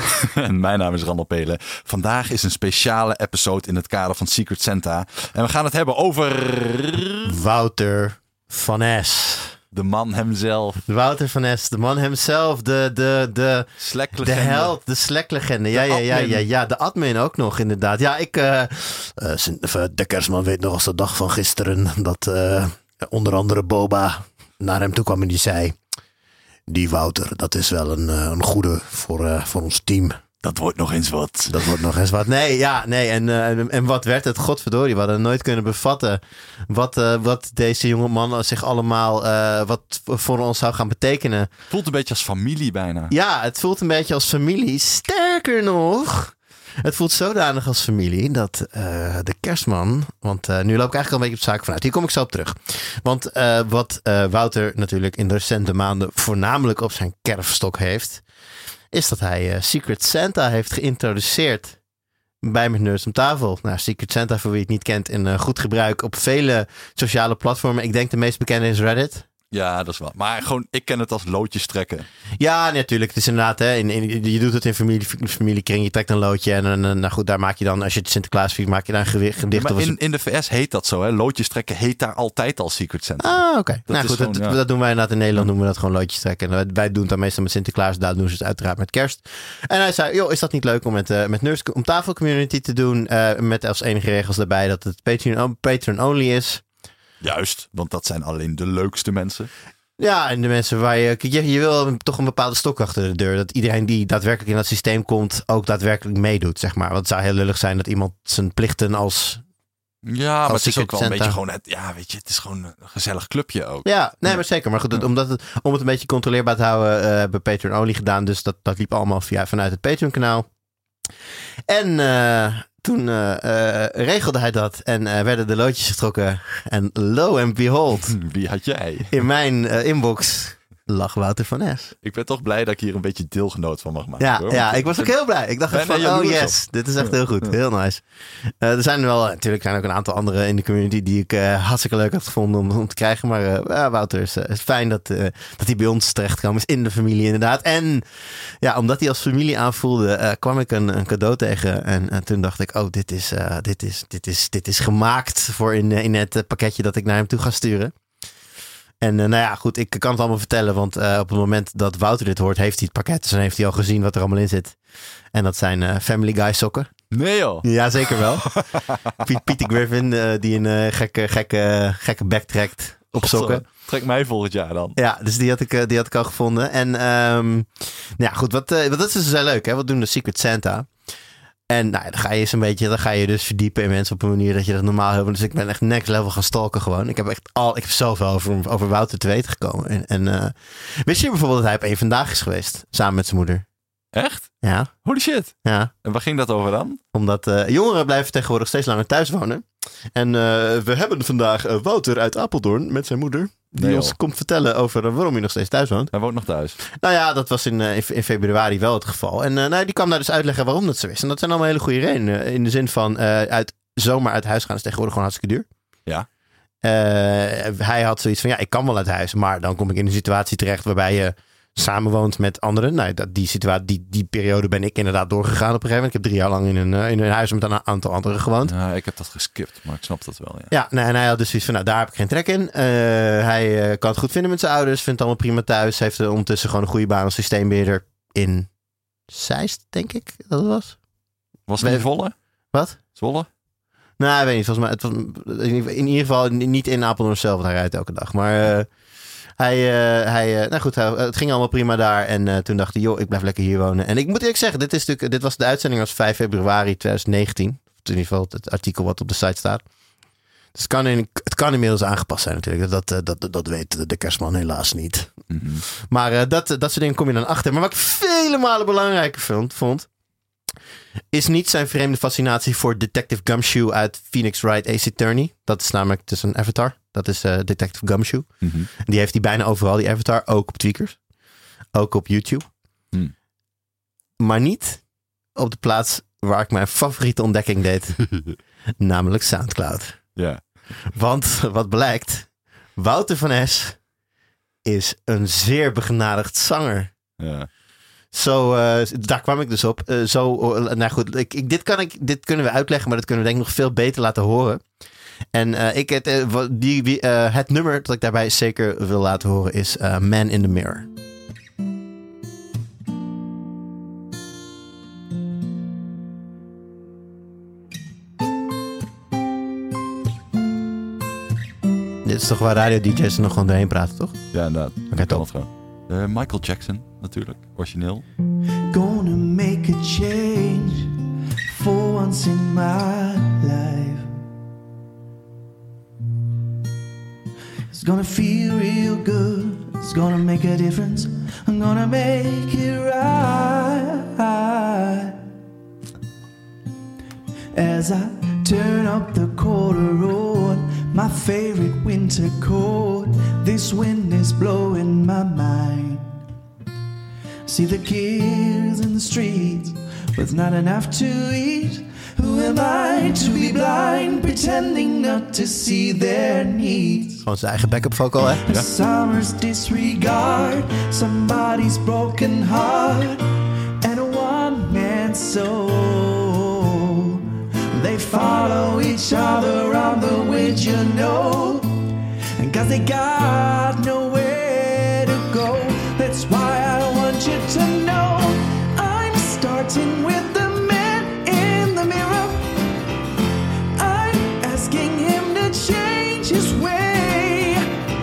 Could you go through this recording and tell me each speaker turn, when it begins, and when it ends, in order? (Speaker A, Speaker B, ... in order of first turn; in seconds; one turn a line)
Speaker A: 0.2-7.3
Speaker B: 7.2-9.6
Speaker A: 9.7-10.8
Speaker B: 10.9-25.8
Speaker A: 13.8-14.8
Speaker A: 15.7-16.5
Speaker B: 26.7-30.2
Speaker A: 30.4-31.7
Speaker B: 31.5-41.5
Speaker A: 41.7-43.1
Speaker B: 43.1-58.2
Speaker B: 58.9-61.8
Speaker B: 62.4-69.3
Speaker A: 69.5-72.0
Speaker B: 72.4-80.0
Speaker A: 79.5-84.6
Speaker B: 83.2-96.6
Speaker A: 97.2-99.5
Speaker B: 100.0-109.4
Speaker A: 110.1-114.3
Speaker B: 110.4-111.4
Speaker B: 113.8-120.5
Speaker B: 121.7-128.2
Speaker A: 128.1-129.1
Speaker B: 129.1-131.9
Speaker A: 132.0-135.1
Speaker B: 134.2-148.0
Speaker A: 135.7-137.1
Speaker B: 148.6-157.9
Speaker B: 159.0-164.8
Speaker B: 165.3-166.9
Speaker A: 167.1-167.6
Speaker B: 167.6-168.5
Speaker A: 168.2-169.1
Speaker B: 169.2-173.7
Speaker A: 173.2-174.9
Speaker B: 174.9-180.9
Speaker B: 181.7-193.6
Speaker A: 194.1-197.0
Speaker B: 194.6-194.9
Speaker B: 195.6-195.9
Speaker B: 197.1-206.1
Speaker A: 203.8-204.1
Speaker A: 206.1-206.8
Speaker B: 206.9-215.7
Speaker B: 216.8-228.7
Speaker A: 228.7-230.7
Speaker B: 230.7-238.7
Speaker B: 239.3-241.0
Speaker A: 241.7-242.3
Speaker B: 241.8-242.1
Speaker B: 242.7-243.0
Speaker A: 243.1-243.5
Speaker B: 244.2-248.9
Speaker B: 249.6-259.8
Speaker B: 260.7-270.1
Speaker A: 265.5-265.8
Speaker B: 271.3-281.2
Speaker A: 278.6-278.9
Speaker B: 281.9-282.7
Speaker B: 284.4-285.0
Speaker B: 285.5-288.3
Speaker B: 289.0-290.2
Speaker A: 290.4-290.6
Speaker B: 291.1-294.0
Speaker B: 294.8-297.1
Speaker A: 297.4-297.7
Speaker B: 298.3-304.8
Speaker B: 305.5-311.1
Speaker B: 322.2-324.4
Speaker A: 324.5-328.2
Speaker B: 325.1-325.4
Speaker C: 328.9-334.3
Speaker C: 337.9-345.4
Speaker C: 347.7-356.4
Speaker C: 357.6-367.4
Speaker B: 367.4-368.6
Speaker C: 368.6-373.5
Speaker C: 374.0-392.7
Speaker C: 393.9-398.0